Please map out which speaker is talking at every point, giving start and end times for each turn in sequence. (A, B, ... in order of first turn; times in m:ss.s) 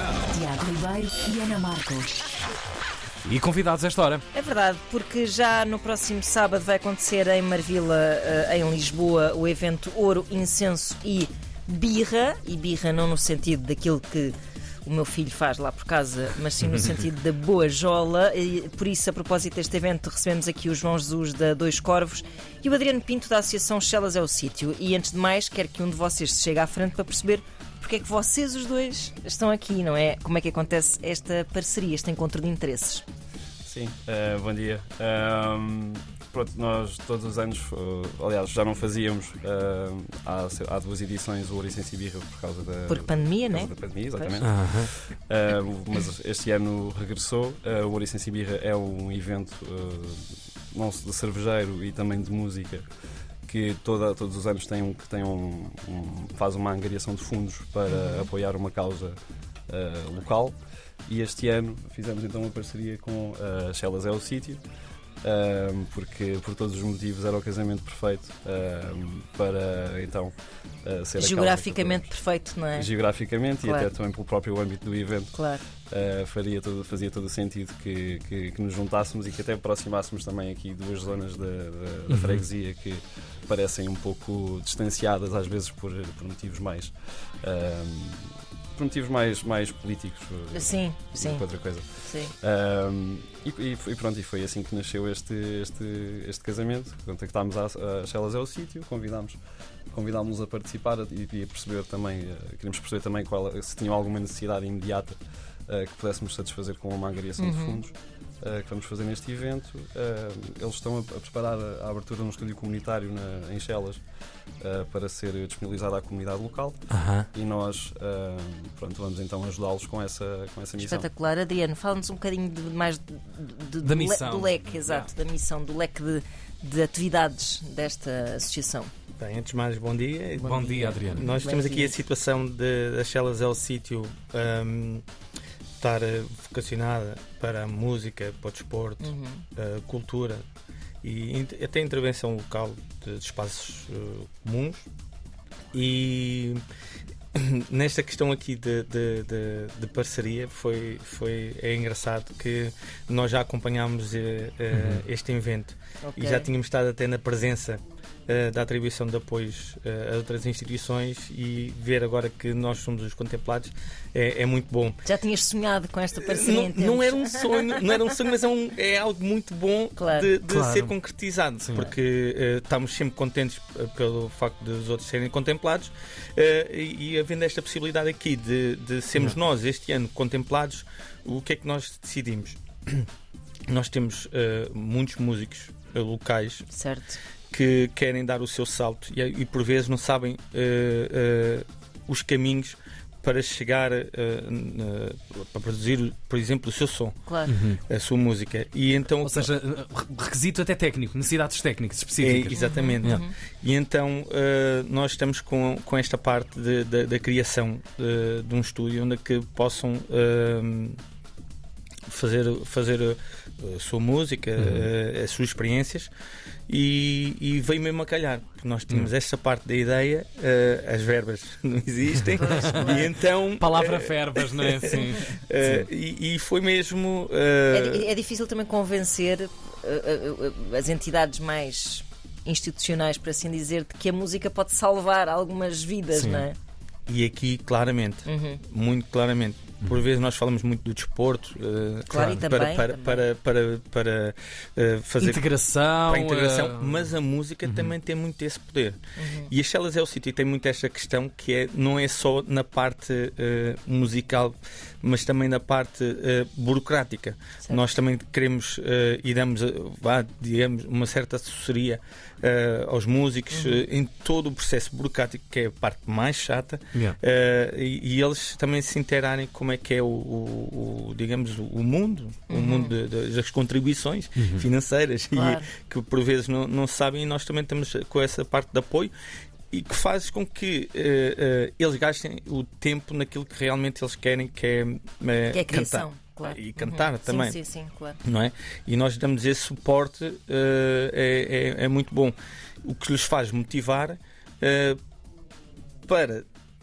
0:00.2-0:02.3 A
0:03.3-0:04.2 B
0:04.3-0:33.0 C
0:33.6-0:52.8 D
0:42.9-0:44.5 C
0:44.4-0:44.9 B
0:53.5-0:59.2 D
0:57.9-0:58.3 C
0:59.7-1:00.6 D
1:01.1-1:04.6 D
1:05.2-1:10.3 D
1:10.8-1:12.1 D
1:11.2-1:12.9 C
1:12.8-1:15.4 D
1:13.6-1:13.9 C
1:15.3-1:15.6 C
1:15.9-1:39.4 D
1:30.5-1:31.5 C
1:32.0-1:32.3 C
1:39.9-1:45.2 D
1:45.7-1:54.0 D
1:47.4-1:47.8 C
1:54.6-1:56.8 D
1:56.9-1:57.3 B
1:57.3-2:01.1 D
2:00.8-2:08.9 C
2:03.8-2:04.6 B
2:09.2-2:15.1 E
2:10.4-2:11.2 B
2:10.4-2:12.0 C
2:15.8-2:20.4 E
2:19.0-2:19.4 C
2:21.0-2:24.9 E
2:25.7-2:26.6 E
2:27.4-2:45.0 E
2:34.7-2:35.0 B
2:36.0-2:36.5 C
2:45.0-2:47.8 C
2:46.2-3:03.1 E
2:50.0-2:50.3 C
2:50.5-2:50.9 B
2:51.6-2:51.9 B
3:03.7-3:06.7 E
3:06.7-3:07.2 C
3:07.5-3:17.2 E
3:17.3-3:17.5 C
3:17.5-3:17.8 B
3:17.9-3:19.5 E
3:19.2-3:23.2 B
3:22.2-3:31.0 E
3:22.6-3:23.3 C
3:32.1-3:36.1 E
3:34.6-3:34.9 B
3:36.7-3:48.0 E
3:42.4-3:43.1 C
3:43.6-3:45.9 B
3:47.7-3:56.6 C
3:56.1-3:56.4 B
3:57.1-4:05.4 E
3:58.2-3:58.6 C
4:02.1-4:03.2 C
4:02.1-4:02.4 B
4:05.2-4:07.1 B
4:06.1-4:39.1 E
4:07.6-4:07.9 B
4:09.2-4:09.5 C
4:17.6-4:18.0 C
4:23.5-4:23.8 C
4:32.5-4:33.0 C
4:34.4-4:34.6 B
4:35.3-4:35.7 C
4:39.7-4:47.6 E
4:45.5-4:48.2 C
4:48.2-4:55.0 E
4:56.1-4:56.4 E